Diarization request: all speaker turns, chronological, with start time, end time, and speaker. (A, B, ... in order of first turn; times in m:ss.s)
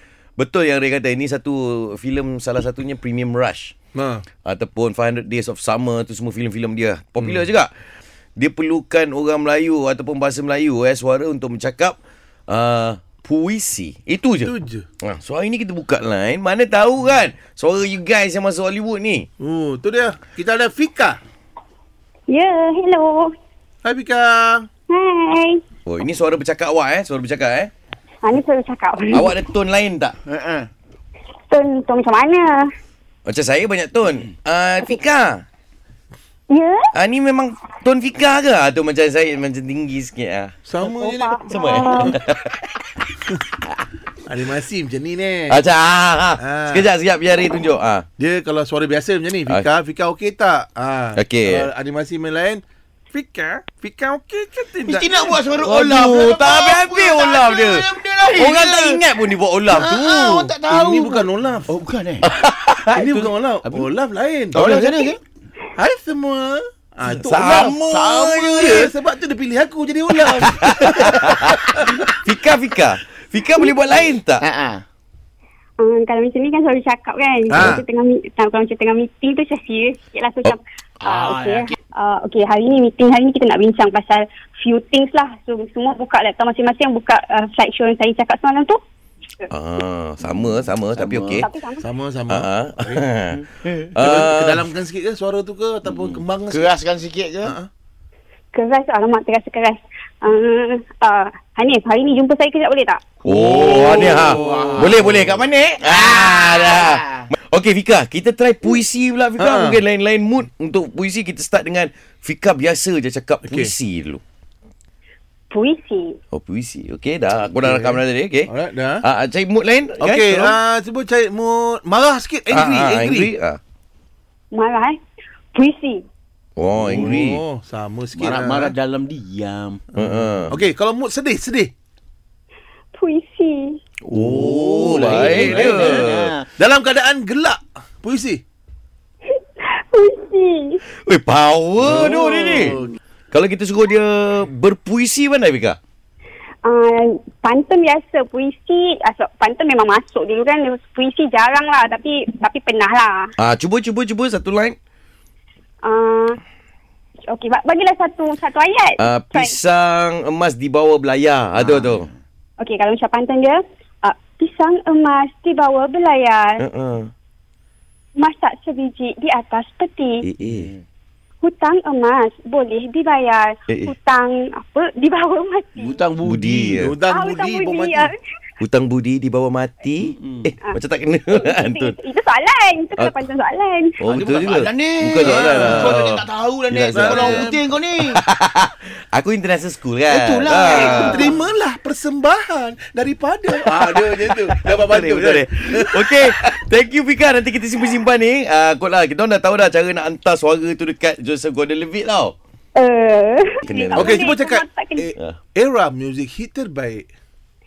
0:00.4-0:03.7 A
0:03.9-0:04.2 B
0:04.4-0:07.7 A
0:08.4-0:12.0 A
0:12.5-0:19.3 A
0:14.4-0:14.8 B
0:19.4-0:21.2 B
0:22.3-0:23.3 C
0:23.8-0:24.7 B
0:24.9-0:25.6 C
0:25.8-0:27.7 A
0:28.2-0:29.3 C
0:29.1-0:30.1 A
0:30.2-0:30.7 D
0:31.5-0:32.7 C
0:33.2-0:35.4 A
0:36.5-0:36.9 C
0:36.9-0:40.5 A
0:40.6-0:42.2 B
0:40.8-0:42.2 C
0:41.5-0:42.6 A
0:44.2-0:45.6 B
0:45.5-0:48.0 A
0:46.4-0:46.8 B
0:48.2-0:55.4 B
0:51.2-0:51.7 A
0:54.8-0:59.0 D
0:55.6-1:00.4 A
0:59.7-1:01.7 B
0:59.9-1:02.3 D
1:02.2-1:03.0 A
1:02.9-1:04.6 B
1:03.0-1:03.9 D
1:04.5-1:05.2 D
1:04.6-1:05.0 A
1:05.8-1:07.8 B
1:07.0-1:08.9 A
1:07.4-1:08.8 D
1:08.5-1:12.0 B
1:10.4-1:14.4 A
1:14.4-1:14.8 D
1:15.8-1:28.8 C
1:17.5-1:17.8 B
1:17.6-1:17.8 A
1:21.0-1:21.7 D
1:29.5-1:31.5 A
1:30.9-1:31.4 D
1:31.4-1:31.8 C
1:31.8-1:33.0 B
1:32.3-1:34.6 A
1:34.0-1:36.8 B
1:36.0-1:37.6 D
1:37.4-1:37.7 B
1:38.5-1:43.0 C
1:43.2-1:54.2 A
1:43.3-1:45.3 B
1:43.4-1:47.2 D
1:49.4-1:49.8 B
1:53.4-1:53.7 B
1:55.5-1:56.2 C
1:56.3-1:58.5 A
1:57.6-1:59.0 B
1:59.0-2:00.6 A
2:00.0-2:03.3 B
2:02.5-2:03.6 A
2:04.5-2:05.0 C
2:05.5-2:06.0 C
2:06.6-2:07.4 A
2:06.8-2:08.7 B
2:08.1-2:09.8 D
2:10.0-2:10.6 A
2:10.0-2:11.7 B
2:12.9-2:13.8 C
2:14.1-2:16.3 A
2:14.1-2:16.5 D
2:14.9-2:18.4 B
2:19.6-2:20.8 C
2:21.0-2:25.8 A
2:21.8-2:22.7 B
2:26.6-2:33.3 C
2:33.4-2:34.8 A
2:35.8-2:36.4 C
2:37.3-2:39.5 C
2:39.0-2:42.1 A
2:41.6-2:41.9 D
2:42.6-2:46.6 C
2:46.6-2:47.1 A
2:48.2-2:50.2 C
2:50.2-2:50.7 A
2:50.5-2:50.8 D
2:51.4-2:56.0 C
2:55.8-2:56.8 D
2:56.2-2:56.9 A
2:56.8-2:58.1 B
2:57.1-2:58.2 C
2:58.6-3:01.9 A
3:01.3-3:04.0 C
3:04.0-3:07.5 A
3:04.1-3:08.2 D
3:05.2-3:06.1 B
3:06.9-3:07.6 B
3:08.1-3:11.2 A
3:10.1-3:11.4 D
3:10.6-3:16.1 B
3:14.2-3:22.4 A
3:22.8-3:25.1 C
3:23.6-3:24.3 A
3:23.9-3:27.1 B